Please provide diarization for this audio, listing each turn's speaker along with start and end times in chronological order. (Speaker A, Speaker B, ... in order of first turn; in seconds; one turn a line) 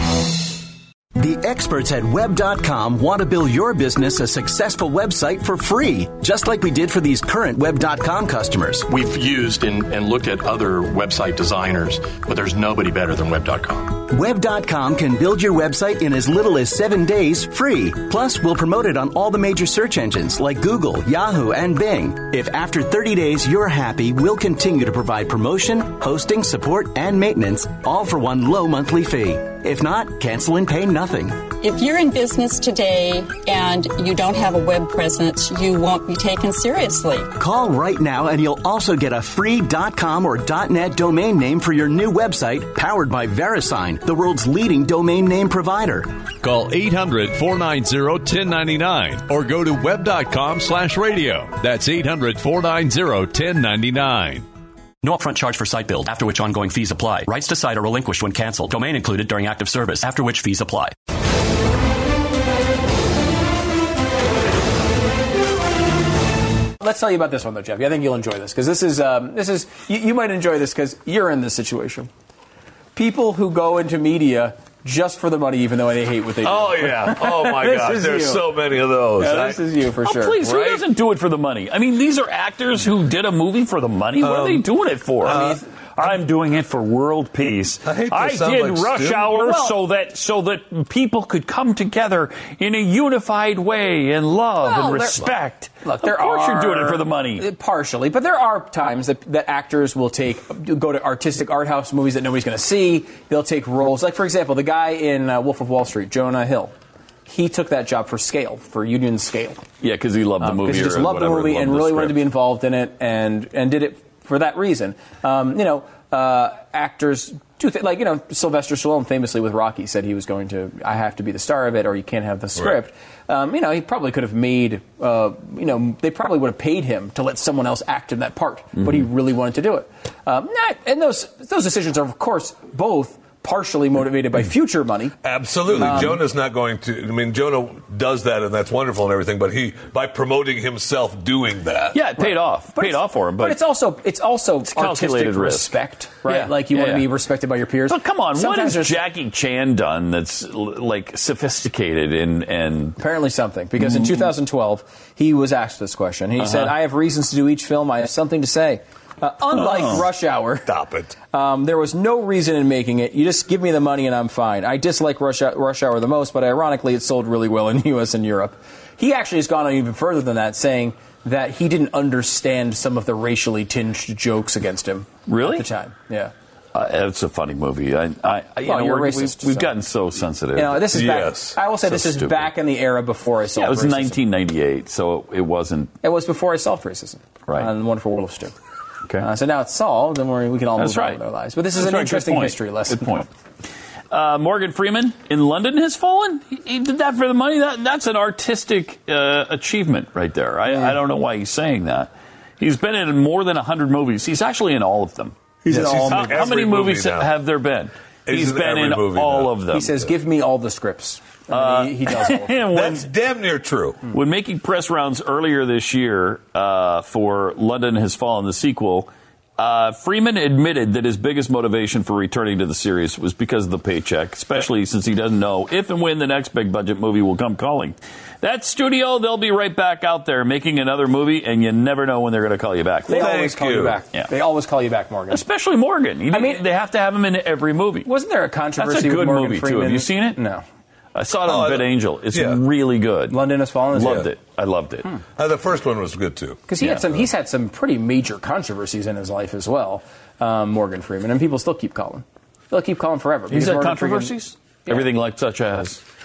Speaker A: 1.2-8.8
Speaker B: 8.9-14.0
Speaker A: 14.1-31.5
Speaker C: 31.6-37.3
Speaker A: 37.4-46.2
Speaker D: 46.4-54.5
Speaker E: 55.0-61.0
Speaker F: 66.8-72.1
Speaker F: 72.9-78.5
Speaker G: 76.4-79.6
Speaker F: 79.2-80.8
Speaker H: 80.0-97.5
Speaker G: 84.2-84.7
Speaker G: 85.2-85.6
Speaker F: 85.2-85.6
Speaker G: 87.8-89.4
Speaker F: 89.4-89.7
Speaker F: 95.8-106.7
Speaker F: 107.3-109.6
Speaker H: 109.8-112.2
Speaker F: 110.4-135.2
Speaker G: 135.2-142.0
Speaker F: 135.7-136.2
Speaker H: 141.9-143.6
Speaker F: 142.2-149.0
Speaker H: 144.7-145.7
Speaker H: 146.2-147.0
Speaker H: 147.9-153.0
Speaker F: 153.0-160.7
Speaker H: 156.4-156.7
Speaker H: 159.6-160.0
Speaker G: 160.7-161.2
Speaker F: 161.3-176.3
Speaker H: 175.3-175.7
Speaker H: 176.7-180.9
Speaker F: 178.6-179.7
Speaker F: 180.5-184.2
Speaker G: 180.9-181.6
Speaker H: 181.8-182.5
Speaker H: 183.6-185.9
Speaker F: 186.0-188.5
Speaker F: 189.2-193.2
Speaker H: 190.8-191.2
Speaker H: 191.7-193.3
Speaker H: 194.1-205.3
Speaker F: 205.7-206.6
Speaker G: 205.7-207.3
Speaker H: 206.1-209.9
Speaker G: 208.3-209.6
Speaker F: 209.7-212.6
Speaker H: 211.5-213.1
Speaker G: 212.7-214.1
Speaker H: 214.1-233.3
Speaker F: 233.1-235.4
Speaker G: 233.1-234.0
Speaker H: 235.3-238.1
Speaker F: 236.3-236.6
Speaker F: 238.1-240.6
Speaker H: 238.8-240.4
Speaker H: 241.1-243.4
Speaker G: 241.4-242.6
Speaker F: 243.3-244.3
Speaker H: 243.9-245.2
Speaker G: 244.0-244.3
Speaker G: 245.4-246.6
Speaker F: 246.7-254.4
Speaker H: 246.8-247.1
Speaker H: 253.5-256.0